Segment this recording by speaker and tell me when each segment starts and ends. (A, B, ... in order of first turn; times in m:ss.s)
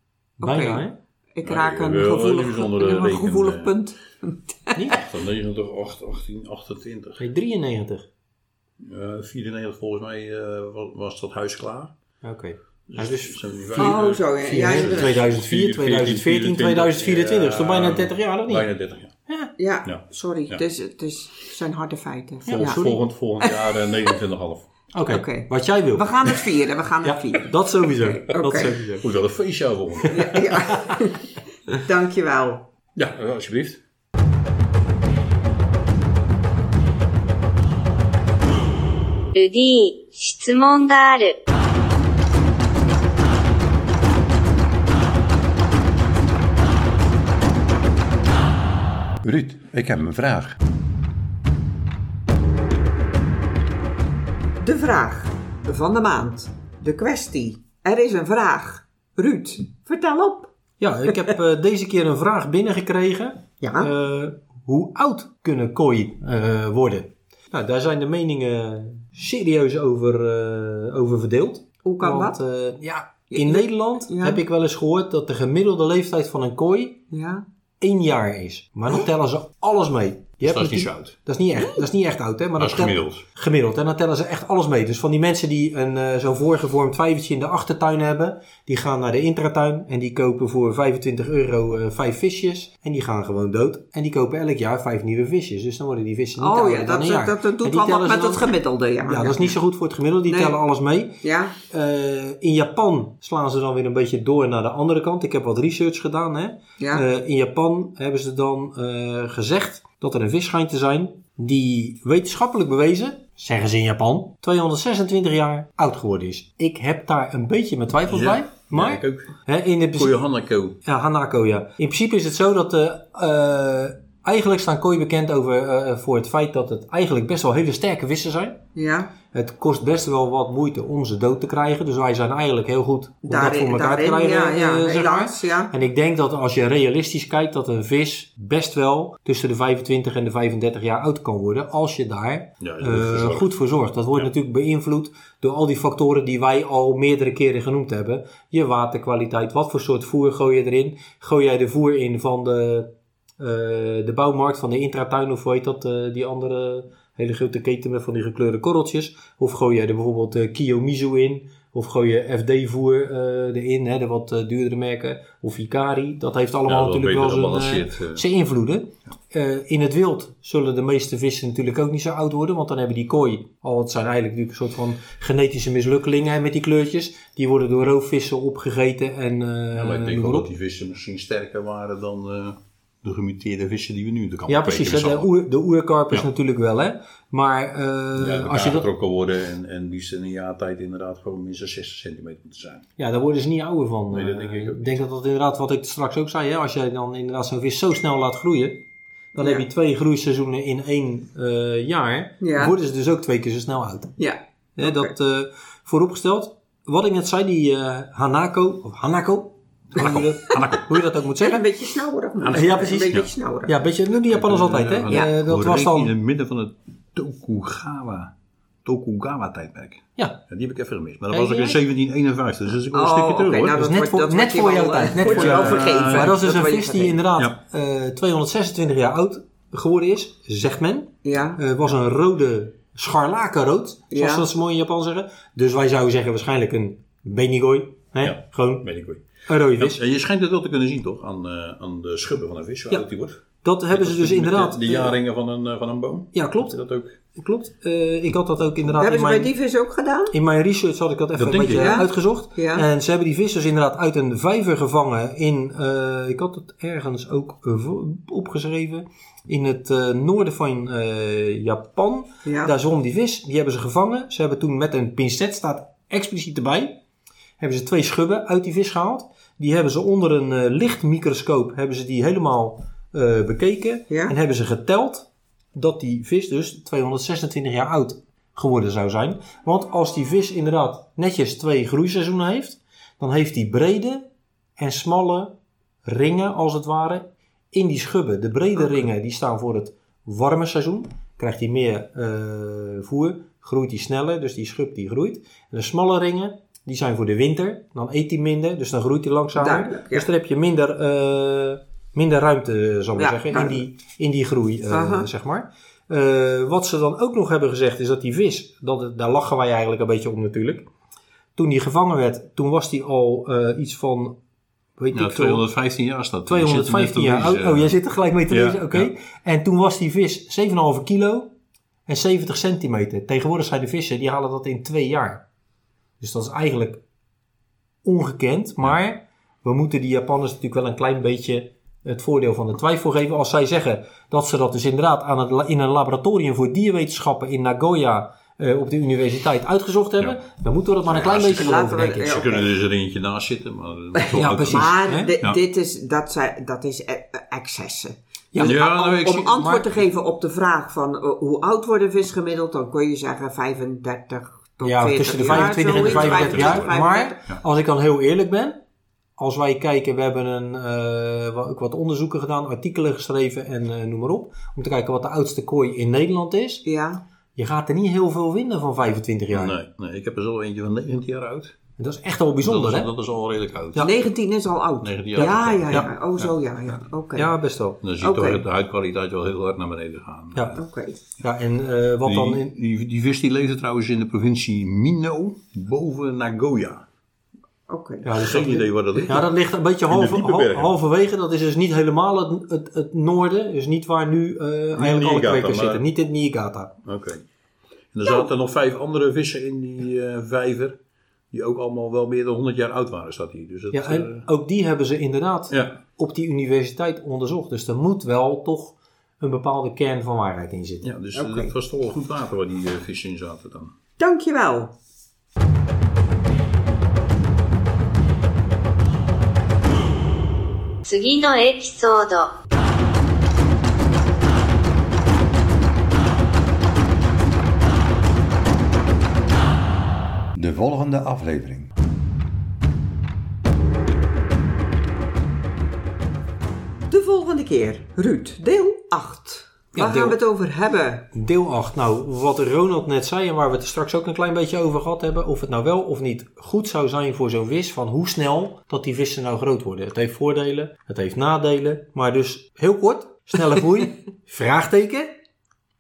0:00.4-0:00.9 A
0:00.4-0:04.8 B
0:01.4-0:03.8 C
0:04.7-0:05.0 A
0:04.9-0:07.2 C
0:07.2-0:08.1 A
0:08.8-0:11.9 C
0:12.2-0:18.7 A
0:12.9-0:19.1 C
0:13.8-0:15.2 B
0:19.3-0:19.5 A
0:19.6-0:22.8 B
0:19.8-0:20.6 C
0:22.5-0:23.0 A
0:22.5-0:24.6 C
0:23.4-0:24.1 B
0:24.9-0:26.3 A
0:25.1-0:28.7 B
0:27.0-0:29.1 A
0:29.0-0:30.4 C
0:30.1-0:32.6 B
0:33.0-0:33.8 C
0:39.4-0:41.4 D
0:49.2-0:50.6 E
0:54.6-1:00.5 B
1:00.8-1:17.0 A
1:03.6-1:03.9 B
1:11.8-1:12.4 B
1:13.3-1:14.4 B
1:17.1-1:17.4 B
1:17.8-1:41.2 A
1:20.4-1:21.2 C
1:21.6-1:21.8 B
1:22.6-1:23.2 C
1:36.4-1:39.5 B
1:40.3-1:40.6 B
1:41.2-1:41.6 B
1:41.7-2:00.2 A
1:58.1-1:59.3 C
2:00.0-2:00.8 C
2:00.8-2:08.6 A
2:08.7-2:09.1 B
2:09.3-3:00.5 A
2:13.2-2:15.7 B
2:22.6-2:23.5 C
2:46.6-2:48.2 C
2:59.7-3:05.3 C
3:04.5-3:08.9 A
3:08.2-3:12.9 C
3:13.0-3:18.8 A
3:14.1-3:15.0 C
3:19.3-3:24.2 A
3:19.4-3:19.6 B
3:22.4-3:22.7 B
3:24.2-3:25.1 B
3:24.8-3:31.6 A
3:29.9-3:31.0 C
3:31.4-3:33.7 B
3:32.4-3:33.3 C
3:32.5-3:36.1 A
3:34.3-3:38.3 C
3:38.8-3:43.8 C
3:41.3-3:41.8 A
3:42.9-3:47.2 B
3:43.8-3:58.8 A
3:45.3-3:46.4 C
3:51.2-3:51.6 B
3:54.1-3:54.4 B
3:58.2-4:07.2 C
3:59.4-4:00.0 A
4:03.6-4:05.2 A
4:06.3-4:06.8 A
4:07.3-4:09.5 A
4:09.0-4:10.4 B
4:10.3-4:27.0 A
4:11.4-4:12.0 C
4:11.8-4:12.8 B
4:22.4-4:22.7 B
4:27.6-4:44.2 A
4:34.1-4:34.4 B
4:44.8-4:45.5 A
4:46.0-5:10.9 A
4:59.5-5:00.3 B
5:03.2-5:03.8 B
5:04.9-5:05.3 B
5:11.6-5:14.4 A
5:15.0-5:15.6 A
5:15.1-5:18.0 C
5:16.4-5:21.5 A
5:18.5-5:19.1 C
5:22.1-5:25.4 A
5:26.2-5:27.0 A
5:28.0-5:42.4 A
5:41.1-5:45.6 C
5:41.5-5:42.7 B
5:44.3-5:45.3 A
5:44.6-5:57.4 B
5:48.5-5:49.8 A
5:48.6-5:49.8 C
5:54.8-5:58.8 A
5:55.4-5:56.9 C
5:59.4-6:06.8 A
6:06.8-6:07.2 B
6:07.6-6:09.8 A
6:09.5-6:11.8 C
6:12.0-6:13.1 A
6:12.6-6:14.1 C
6:14.0-6:17.5 B
6:15.0-6:16.5 C
6:15.4-6:16.1 A
6:17.3-6:18.0 A
6:18.0-6:20.8 C
6:18.2-6:18.6 B
6:20.5-6:20.8 A
6:20.8-6:21.2 B
6:21.4-6:22.7 A
6:22.2-6:27.1 C
6:27.9-6:28.4 B
6:28.2-6:36.9 A
6:28.3-6:29.5 C
6:30.1-6:30.9 C
6:34.9-6:36.0 C
6:37.0-6:37.4 C
6:38.1-6:41.0 C
6:41.5-6:44.5 C
6:43.9-6:51.1 A
6:45.7-6:46.0 C
6:51.0-6:53.9 C
6:51.4-6:51.7 B
6:54.2-6:54.9 B
7:01.1-7:02.5 D
7:10.6-7:11.9 E
7:17.1-7:21.3 B
7:19.9-7:20.4 A
7:21.3-7:35.3 A